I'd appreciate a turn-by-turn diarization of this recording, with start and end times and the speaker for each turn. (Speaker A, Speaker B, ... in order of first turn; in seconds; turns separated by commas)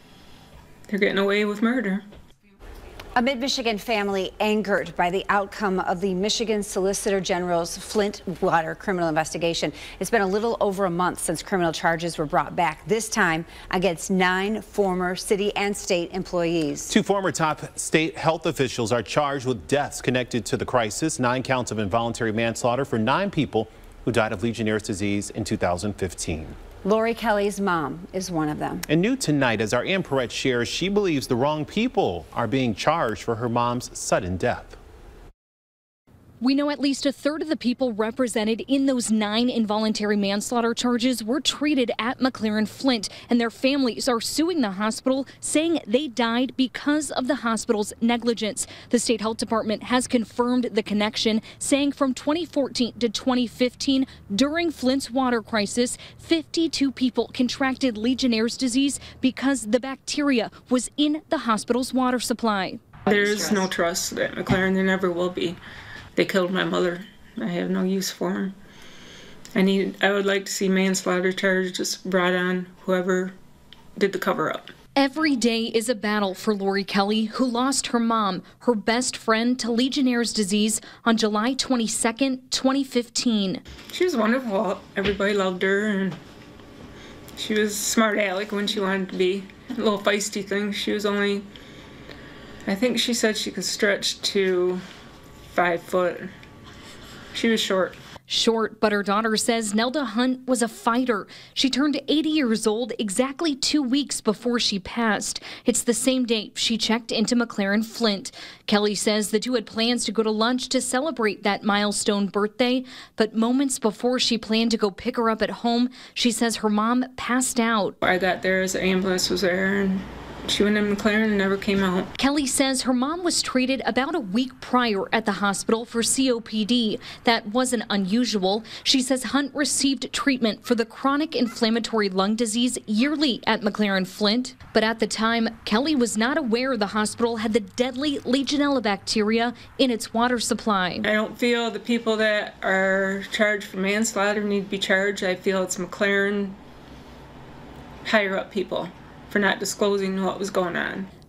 Speaker A: 0.9-2.0, Speaker B: 3.1-16.9, Speaker C: 16.9-26.6, Speaker B: 26.8-28.9, Speaker C: 28.9-34.8, Speaker D: 36.4-62.8, Speaker A: 63.1-65.6, Speaker A: 66.2-68.5, Speaker A: 69.5-73.3, Speaker A: 74.0-74.7, Speaker D: 75.0-83.6, Speaker A: 83.9-86.2, Speaker A: 87.4-91.5, Speaker A: 92.7-94.8, Speaker A: 95.5-96.3, Speaker A: 97.3-98.0, Speaker D: 98.3-118.0, Speaker A: 118.0-122.1, Speaker D: 122.2-141.1, Speaker A: 141.0-146.6, Speaker A: 148.0-151.1